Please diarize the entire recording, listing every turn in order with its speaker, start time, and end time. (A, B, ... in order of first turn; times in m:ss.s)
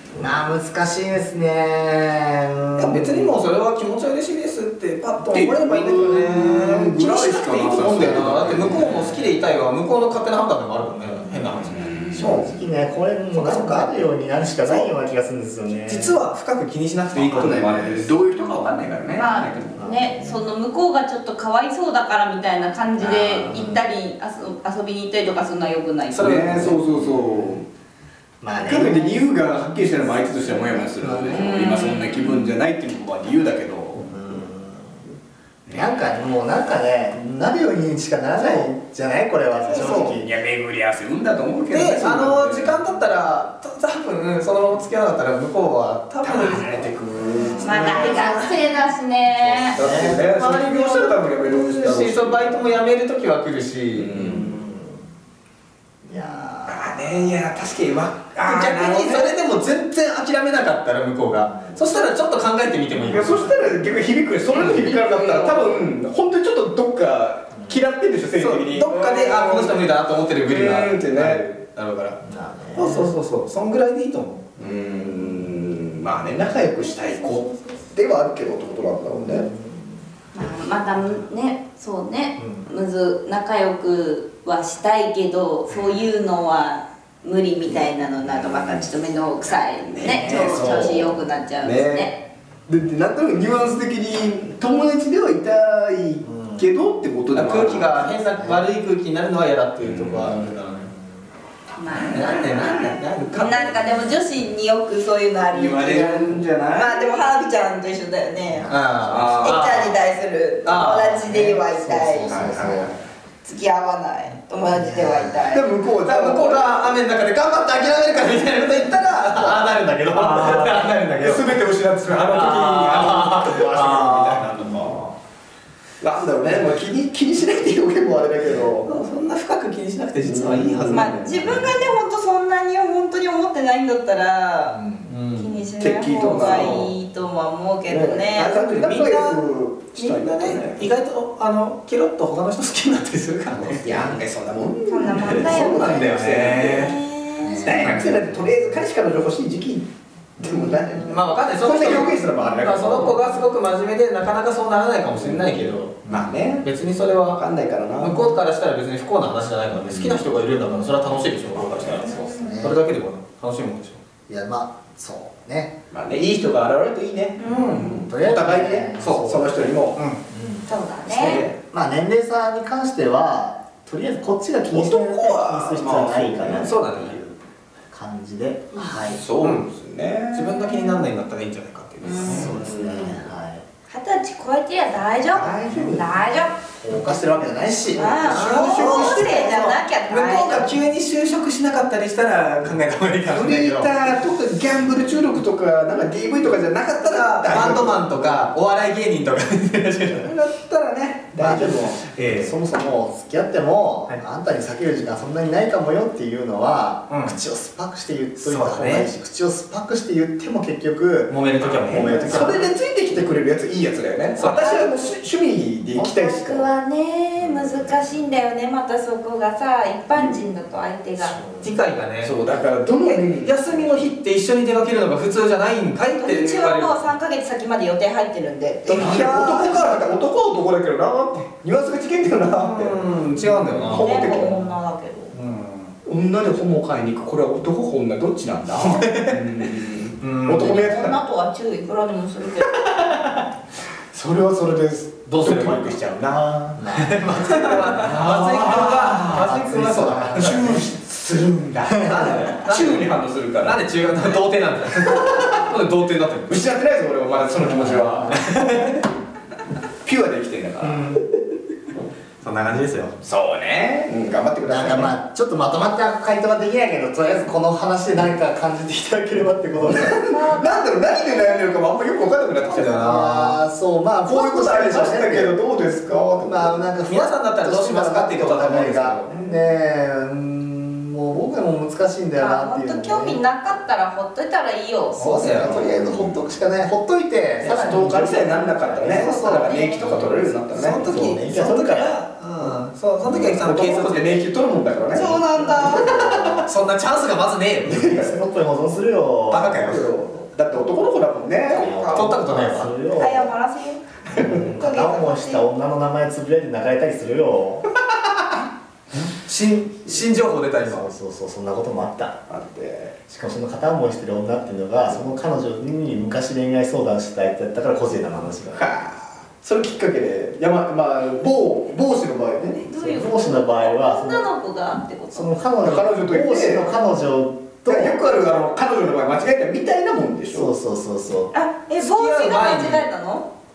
0:00.2-0:03.3 A
0:02.8-0:11.9 B
0:05.3-0:09.2 C
0:08.0-0:08.9 A
0:11.2-0:11.6 A
0:11.6-0:12.6 C
0:12.1-0:16.2 A
0:13.4-0:13.9 B
0:15.9-0:18.0 B
0:17.1-0:19.8 C
0:17.2-0:18.1 A
0:19.1-0:26.6 D
0:19.7-0:20.3 A
0:23.0-0:23.5 C
0:23.0-0:23.8 A
0:26.1-0:26.8 B
0:26.2-0:27.6 C
0:26.9-0:27.6 A
0:28.4-0:29.4 A
0:28.5-0:34.2 C
0:30.0-0:31.6 A
0:31.3-0:32.5 D
0:34.0-0:35.1 A
0:35.7-0:40.3 A
0:38.4-0:38.7 C
0:39.6-0:42.9 C
0:39.7-0:40.1 B
0:41.7-0:46.9 B
0:46.2-0:48.5 C
0:47.2-0:48.2 A
0:47.6-0:49.8 D
0:47.8-0:48.4 B
0:49.5-0:52.7 C
0:49.5-0:50.2 A
0:50.3-0:54.2 B
0:53.9-0:54.5 C
0:54.2-0:55.0 A
0:56.0-0:57.4 A
0:56.6-0:59.3 C
0:58.4-1:03.5 B
1:01.3-1:01.8 A
1:03.0-1:09.8 C
1:04.5-1:05.5 B
1:04.8-1:05.7 D
1:07.5-1:07.8 A
1:08.4-1:12.2 B
1:10.4-1:11.5 C
1:12.2-1:13.1 A
1:12.7-1:14.4 B
1:14.6-1:19.5 C
1:16.8-1:17.9 D
1:19.2-1:20.0 A
1:20.3-1:32.1 D
1:22.4-1:22.7 A
1:29.9-1:32.2 C
1:30.5-1:31.1 A
1:32.7-1:38.1 C
1:36.2-1:36.7 A
1:37.3-1:40.9 B
1:38.3-1:38.7 A
1:39.8-1:40.5 C
1:40.9-1:41.2 A
1:41.8-1:48.7 D
1:41.9-1:42.9 C
1:42.1-1:44.0 B
1:45.5-1:47.2 C
1:48.5-1:49.2 A
1:48.7-1:50.0 B
1:49.1-1:49.9 C
1:49.4-1:52.4 D
1:50.6-1:51.6 B
1:51.8-1:52.9 A
1:52.3-1:53.0 C
1:53.4-1:55.7 D
1:54.7-1:55.5 A
1:55.5-1:56.9 C
1:56.0-2:04.4 B
1:59.3-2:05.1 C
2:06.0-2:09.0 C
2:08.8-2:11.5 B
2:10.2-2:11.9 C
2:10.9-2:14.8 D
2:14.7-2:15.1 A
2:15.1-2:15.6 B
2:15.3-2:18.7 D
2:15.8-2:16.9 C
2:17.9-2:20.8 C
2:18.5-2:19.4 B
2:19.9-2:24.2 B
2:23.8-2:27.0 C
2:24.9-2:27.8 D
2:25.2-2:27.0 B
2:27.4-2:28.6 A
2:27.6-2:29.9 C
2:27.8-2:28.2 B
2:30.4-2:33.2 C
2:30.9-2:36.0 B
2:35.1-2:38.4 C
2:36.0-2:36.5 A
2:36.6-2:37.4 B
2:38.0-2:44.0 B
2:39.8-2:40.2 C
2:40.7-2:42.8 A
2:41.6-2:42.3 C
2:42.2-2:42.6 D
2:44.3-2:45.8 A
2:45.9-2:50.0 C
2:47.4-2:48.0 D
2:47.4-2:48.0 B
2:48.1-2:57.3 A
2:49.0-2:49.3 B
2:50.0-2:50.2 B
2:50.6-2:51.4 D
2:51.1-2:51.6 C
2:54.7-2:56.8 C
2:56.4-2:57.2 B
2:57.9-2:59.2 A
2:58.9-3:00.8 C
2:59.4-2:59.7 B
3:00.3-3:02.5 B
3:02.0-3:02.5 D
3:02.0-3:03.2 C
3:02.2-3:03.6 A
3:03.9-3:06.6 D
3:05.3-3:06.0 C
3:05.4-3:06.0 A
3:06.8-3:08.2 A
3:07.0-3:13.9 B
3:07.9-3:10.7 D
3:08.0-3:09.8 C
3:13.2-3:18.1 C
3:17.0-3:20.3 B
3:20.2-3:22.2 C
3:21.4-3:32.6 A
3:22.0-3:22.5 B
3:27.1-3:27.4 B
3:28.4-3:29.1 B
3:31.3-3:32.6 B
3:31.6-3:36.7 C
3:34.4-3:34.7 B
3:34.5-3:35.1 D
3:36.0-3:41.4 D
3:37.4-3:37.9 A
3:41.6-3:42.4 B
3:42.2-3:44.1 C
3:43.4-3:47.0 B
3:46.2-3:50.0 D
3:48.8-3:54.6 C
3:49.0-3:49.5 B
3:52.6-3:54.7 B
3:53.9-3:55.3 D
3:55.3-3:55.9 B
3:56.0-4:01.2 C
3:58.8-3:59.4 B
4:00.2-4:00.9 B
4:00.6-4:02.8 D
4:02.7-4:03.3 C
4:04.1-4:06.8 C
4:05.2-4:05.9 B
4:06.7-4:08.0 A
4:06.9-4:10.8 B
4:07.6-4:09.5 C
4:09.3-4:10.8 A
4:10.3-4:13.8 C
4:11.9-4:12.4 A
4:11.9-4:16.6 B
4:15.0-4:15.6 C
4:16.5-4:18.3 C
4:17.8-4:18.5 A
4:18.3-4:19.0 B
4:20.0-4:21.2 C
4:20.8-4:21.2 A
4:22.4-4:23.1 B
4:23.2-4:25.1 C
4:24.6-4:30.2 A
4:29.8-4:33.1 C
4:30.3-4:31.8 D
4:32.7-4:33.6 B
4:32.9-4:35.5 A
4:34.3-4:36.8 C
4:36.4-4:43.4 A
4:37.1-4:39.3 B
4:39.3-4:39.6 C
4:42.4-4:45.5 D
4:45.2-4:45.8 B
4:45.2-4:50.3 A
4:45.6-4:46.4 C
4:47.6-4:51.3 C
4:49.0-4:50.2 D
4:50.0-4:54.4 B
4:51.0-4:53.7 A
4:53.6-4:55.4 C
4:55.1-4:56.2 D
4:55.2-4:56.7 A
4:56.6-4:58.1 B
4:57.9-4:58.4 C
4:57.9-4:59.9 A
4:59.5-5:00.1 B
4:59.7-5:02.0 C
5:01.7-5:02.4 D
5:01.7-5:03.5 A
5:02.0-5:02.9 B
5:03.1-5:05.6 D
5:04.3-5:04.8 C
5:04.4-5:07.9 A
5:09.1-5:11.0 B
5:10.8-5:12.4 A
5:12.5-5:13.2 C
5:13.3-5:18.8 A
5:18.8-5:22.9 C
5:22.7-5:25.5 D
5:23.0-5:24.4 A
5:25.3-5:28.2 A
5:25.8-5:26.9 C
5:27.9-5:30.7 C
5:30.5-5:31.5 A
5:31.5-5:33.5 D
5:32.0-5:33.1 B